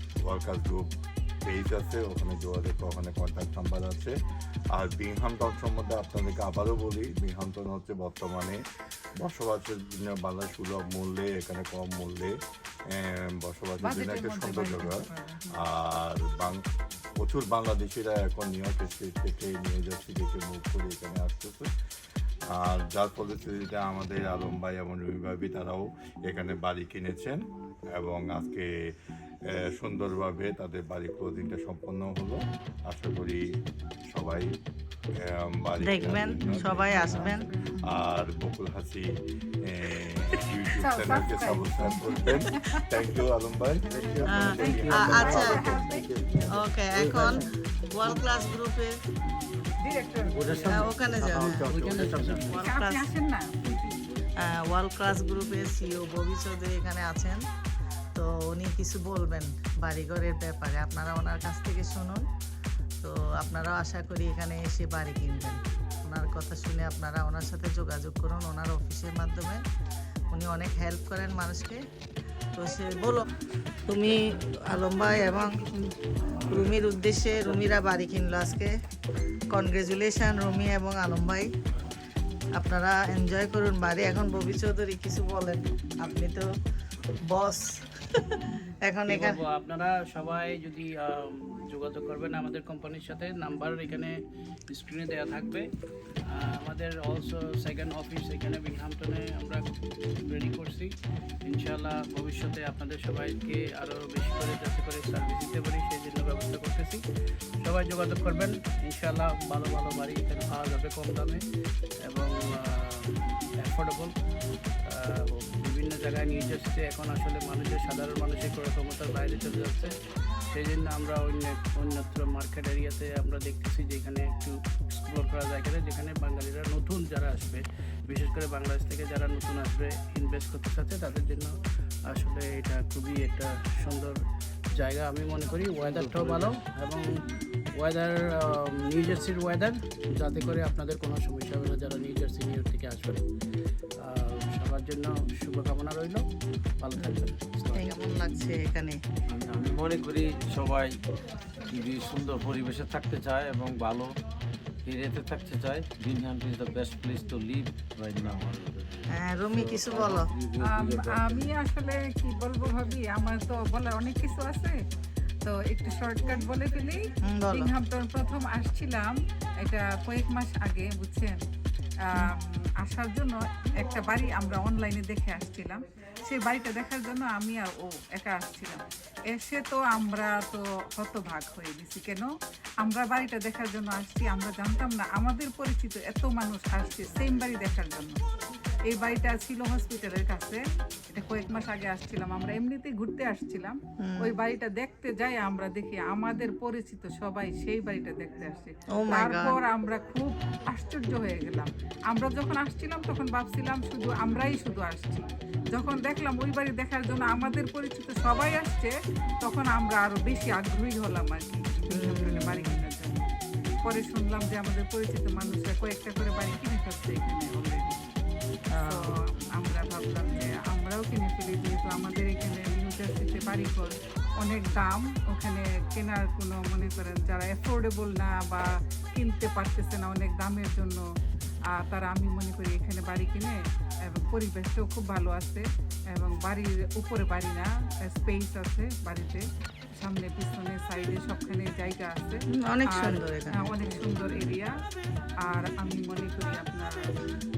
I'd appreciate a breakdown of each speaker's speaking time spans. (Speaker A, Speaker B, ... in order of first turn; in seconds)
Speaker A: 0.2-0.9, 1.4-4.2, 4.7-8.6, 9.2-15.0, 15.5-16.6, 17.2-21.7, 22.5-34.5, 35.2-45.4
Speaker B: 13.8-15.6, 36.5-38.0, 40.7-42.8, 44.0-46.1, 49.8-50.9, 52.5-54.2, 160.6-164.8, 165.4-171.4, 172.0-188.2, 188.9-213.3, 213.8-218.0, 218.8-231.1, 231.7-244.8, 245.4-247.2
Speaker C: 35.8-37.5, 44.2-45.7, 46.5-49.0, 50.6-51.7, 52.5-53.1, 54.4-57.4, 58.1-62.3, 63.0-69.6, 70.3-71.8, 72.5-73.3, 73.9-75.8, 76.4-78.8, 79.5-81.5, 82.5-86.5, 87.2-89.4, 147.0-149.0, 159.1-160.3, 167.2-167.7, 194.0-194.3, 198.9-199.6, 211.9-212.8, 218.7-219.1, 242.5-243.8
Speaker D: 43.9-47.5, 50.2-52.4, 135.8-136.6, 149.3-151.0, 151.7-154.2, 154.8-161.5
Speaker E: 51.6-52.6, 89.0-94.1, 94.7-95.7, 96.3-99.6, 100.2-100.9, 101.5-107.0, 107.6-111.4, 112.0-114.1, 114.8-119.9, 120.5-131.6, 132.1-134.2, 134.8-137.1, 137.7-143.2, 144.0-146.2, 146.8-148.0